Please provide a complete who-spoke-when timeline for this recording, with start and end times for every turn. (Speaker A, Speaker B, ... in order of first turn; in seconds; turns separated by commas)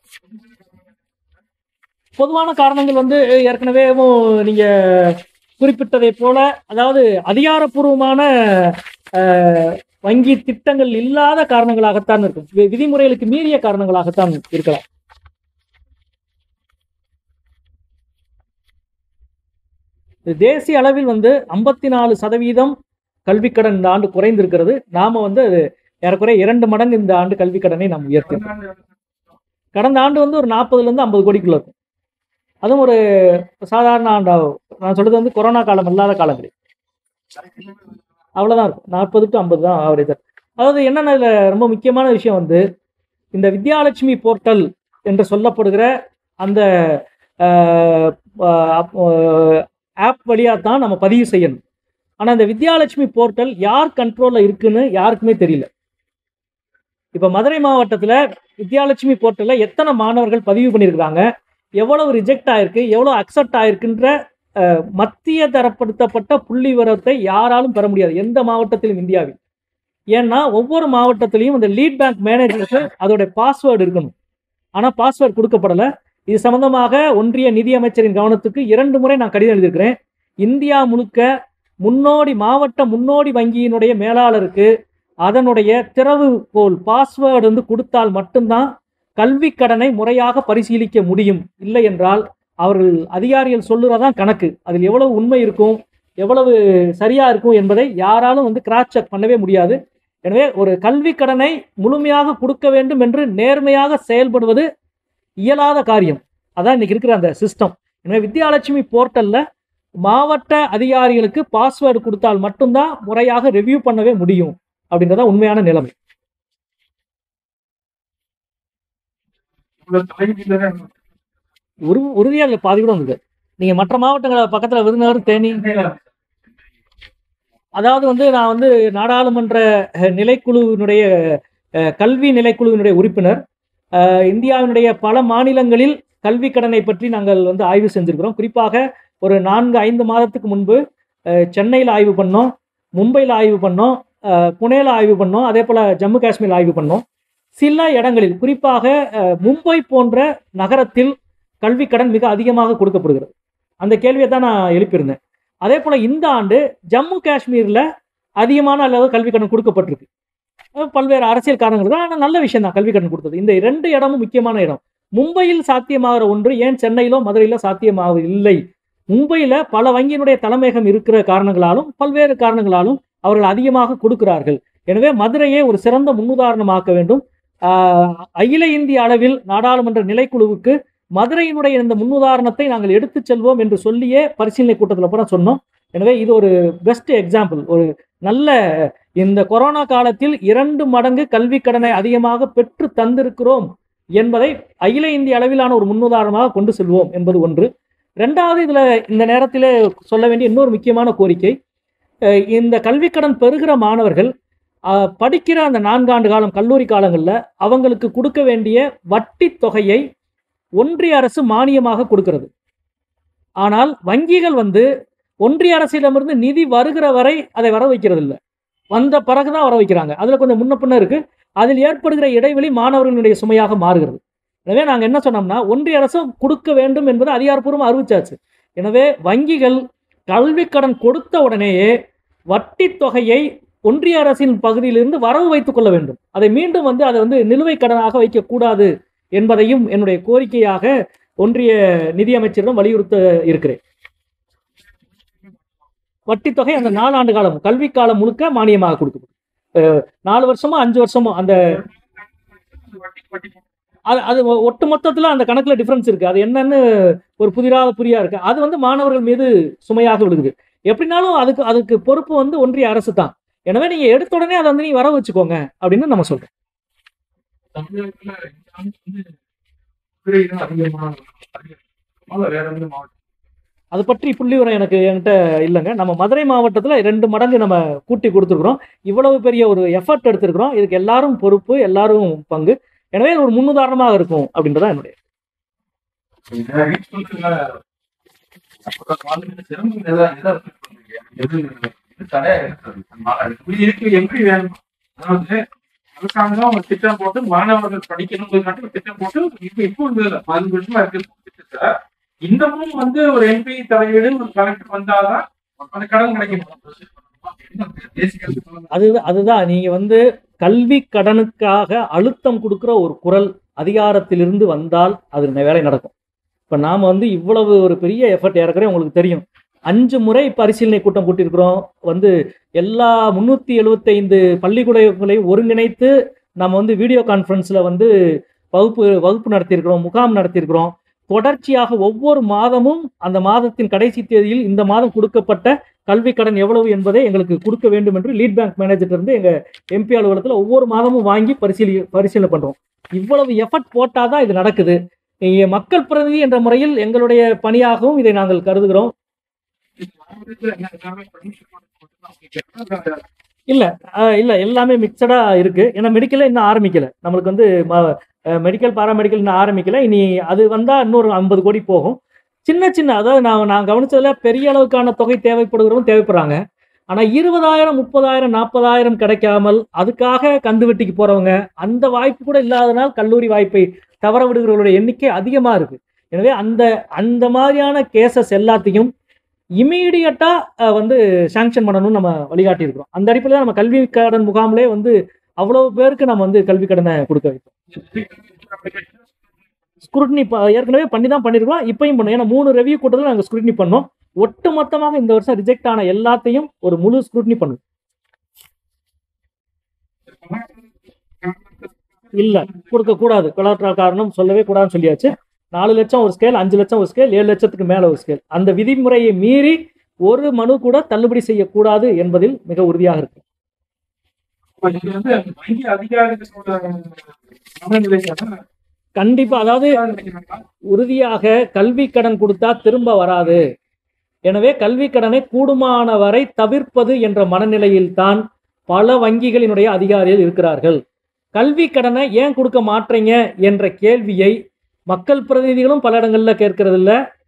Speaker A: 2.2-14.8, Speaker A: 20.3-22.7, Speaker A: 23.3-28.5, Speaker B: 28.4-28.8, Speaker A: 29.7-31.7, Speaker A: 32.6-36.5, Speaker A: 38.4-42.6, Speaker A: 43.3-45.9, Speaker A: 46.4-51.6, Speaker A: 52.2-55.7, Speaker A: 57.1-61.2, Speaker A: 61.8-69.4, Speaker A: 70.1-74.1, Speaker A: 74.8-81.3, Speaker A: 81.8-84.7, Speaker A: 85.2-104.7, Speaker A: 105.4-109.4, Speaker A: 110.0-115.9, Speaker B: 119.8-120.9, Speaker A: 121.9-125.6, Speaker B: 125.4-126.0, Speaker A: 127.8-131.1, Speaker A: 131.9-133.4, Speaker A: 134.0-140.8, Speaker A: 141.3-147.0, Speaker A: 147.6-157.8, Speaker A: 158.4-160.1, Speaker A: 160.8-168.6, Speaker A: 169.1-188.5, Speaker A: 189.2-197.7, Speaker A: 198.2-201.6, Speaker A: 202.5-204.3, Speaker A: 204.9-210.0, Speaker A: 210.8-212.5, Speaker A: 213.6-214.8, Speaker A: 215.4-218.4, Speaker A: 218.9-231.9, Speaker A: 232.5-243.8, Speaker A: 246.3-251.6, Speaker B: 251.8-253.6, Speaker A: 254.1-266.5, Speaker B: 267.7-269.3, Speaker B: 270.2-273.1, Speaker A: 273.9-285.2, Speaker B: 286.5-287.8, Speaker B: 288.8-295.6, Speaker B: 296.2-301.9, Speaker B: 302.4-308.9, Speaker A: 308.9-316.1, Speaker A: 316.7-328.1, Speaker A: 328.7-349.1, Speaker B: 350.0-353.2, Speaker A: 353.7-366.6, Speaker A: 367.1-379.1, Speaker A: 379.8-387.7, Speaker B: 387.9-389.2, Speaker A: 390.0-397.8, Speaker B: 400.3-400.8, Speaker B: 401.4-403.0, Speaker A: 402.3-413.4, Speaker B: 414.8-418.6, Speaker A: 419.2-419.9, Speaker B: 419.5-420.6, Speaker A: 420.9-423.6, Speaker A: 424.5-431.0, Speaker A: 431.6-434.5, Speaker A: 435.1-437.1